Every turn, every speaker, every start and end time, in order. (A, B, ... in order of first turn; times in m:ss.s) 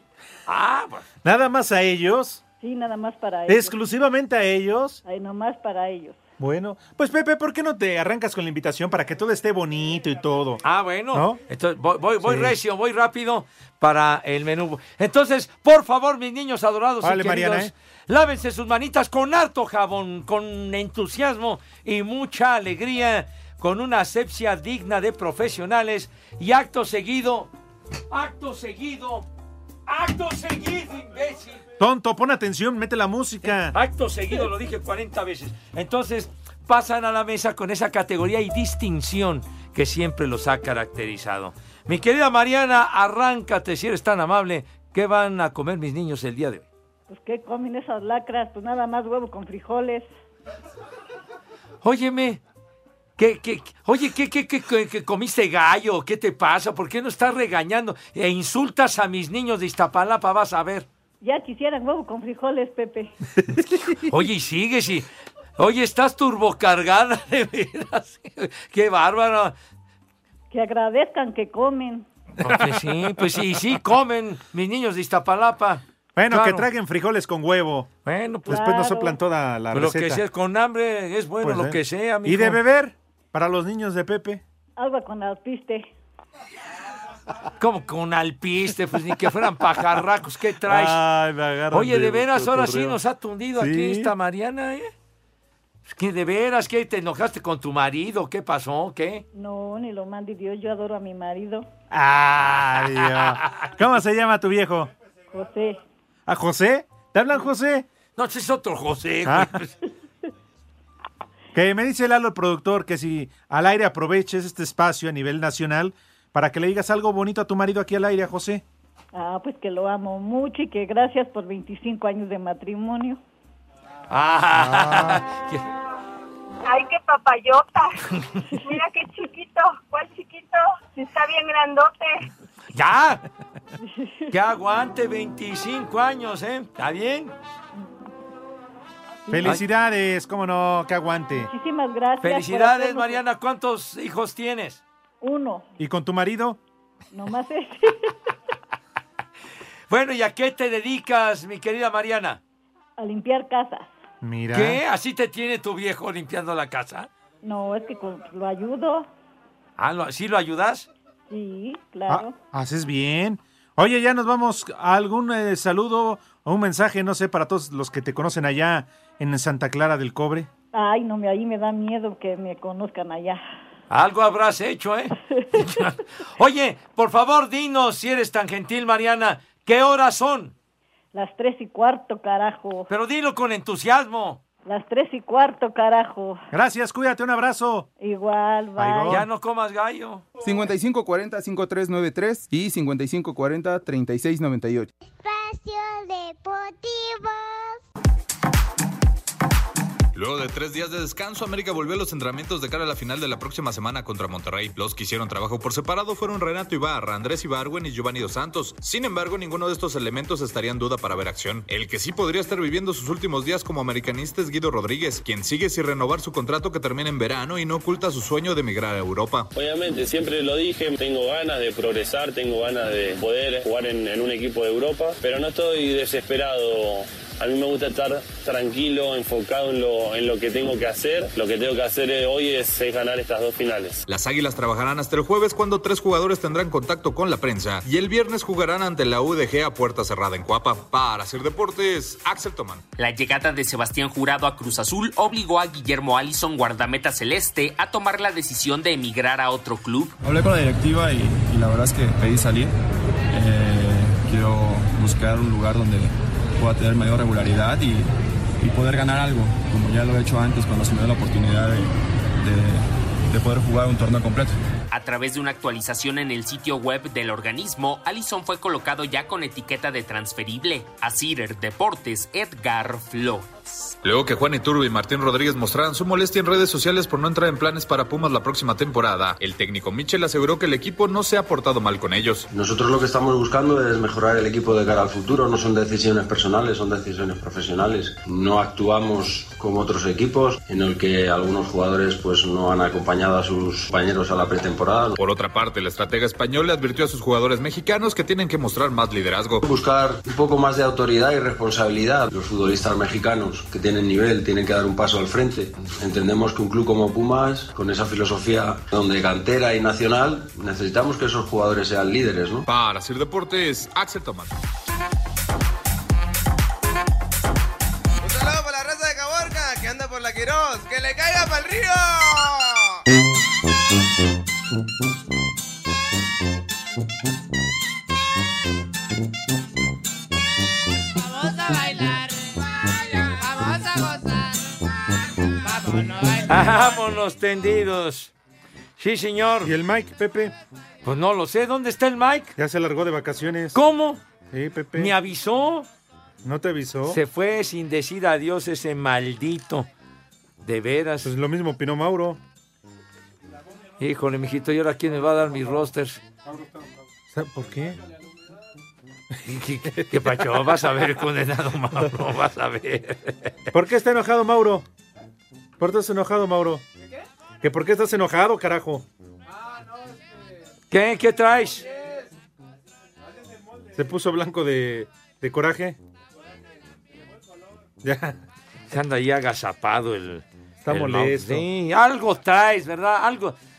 0:00.5-0:01.1 A
0:01.2-0:02.4 B
0:02.6-0:03.8 C
0:03.5-0:05.0 B
0:05.0-0:06.2 C
0:06.4-0:10.6 B
0:10.6-0:27.5 A
0:11.1-0:11.4 B
0:12.2-0:12.6 B
0:17.0-0:17.7 B
0:28.1-0:29.3 A
0:29.9-0:31.6 A
0:31.8-0:33.7 B
0:33.4-0:46.7 A
0:47.1-0:50.1 C
0:51.8-0:52.4 A
0:53.2-1:00.9 A
1:01.2-1:03.1 C
1:04.0-1:05.1 A
1:05.6-1:09.5 A
1:10.5-1:12.1 C
1:12.4-1:16.7 A
1:16.2-1:17.9 B
1:18.1-1:18.6 A
1:18.4-1:20.2 B
1:18.5-1:19.2 C
1:19.7-1:22.6 A
1:21.4-1:24.4 B
1:24.8-1:25.9 C
1:27.6-1:31.0 A
1:30.7-1:33.0 B
1:31.7-1:34.9 A
1:33.6-1:34.1 B
1:35.9-1:39.2 A
1:39.3-1:41.7 C
1:41.9-1:44.9 B
1:42.6-1:43.6 A
1:45.3-1:45.8 C
1:46.3-1:47.9 B
1:48.2-1:49.7 A
1:49.2-1:49.5 B
1:51.6-1:58.6 B
1:59.1-2:03.2 C
2:04.1-2:05.6 A
2:04.6-2:05.2 B
2:06.6-2:07.9 D
2:08.6-2:12.2 D
2:12.7-2:13.2 A
2:13.8-2:14.3 C
2:14.3-2:17.4 A
2:19.3-2:19.6 C
2:19.3-2:21.5 B
2:21.5-2:23.2 C
2:22.2-2:24.8 A
2:25.2-2:25.7 C
2:25.8-2:26.6 B
2:27.1-2:28.1 C
2:29.9-2:32.4 A
2:33.0-2:34.0 C
2:34.2-2:34.8 B
2:34.5-2:37.1 A
2:37.4-2:39.1 C
2:39.8-2:40.9 A
2:41.3-2:42.3 C
2:42.1-2:50.5 B
2:50.7-2:53.4 C
2:53.9-3:00.5 A
2:55.3-2:55.7 C
3:01.1-3:02.9 C
3:02.9-3:04.4 A
3:04.6-3:06.4 C
3:06.5-3:07.9 B
3:08.0-3:09.2 C
3:08.8-3:09.2 B
3:09.1-3:10.2 A
3:10.4-3:14.9 E
3:15.1-3:17.8 F
3:20.1-3:39.5 G
3:39.6-3:54.0 H
3:54.1-4:02.8 G
4:03.0-4:10.2 I
4:10.2-4:12.7 J
4:13.3-4:24.6 J
4:24.9-4:33.9 I
4:34.0-4:42.4 G
4:42.5-4:55.2 K
4:55.2-4:59.6 G
4:59.6-5:12.7 K
5:12.7-5:14.5 G
5:18.2-5:23.0 L
5:36.5-5:38.3 A
5:39.0-5:39.7 A
5:39.6-5:40.5 B
5:41.0-5:42.5 A
5:42.6-5:43.8 B
5:43.7-5:44.2 A
5:44.5-5:45.1 B
5:44.9-5:45.9 A
5:46.4-5:47.2 B
5:47.1-5:49.9 A
5:50.6-5:51.3 A
5:51.2-5:52.4 B
5:54.0-5:56.2 A
5:57.3-5:58.0 B
5:59.4-6:03.6 A
5:59.9-6:00.9 B
6:03.7-6:04.9 B
6:05.8-6:06.8 B
6:07.6-6:09.0 B
6:10.9-6:11.8 A
6:13.9-6:16.0 B
6:18.0-6:18.4 B
6:18.9-6:23.6 A
6:20.8-6:21.6 B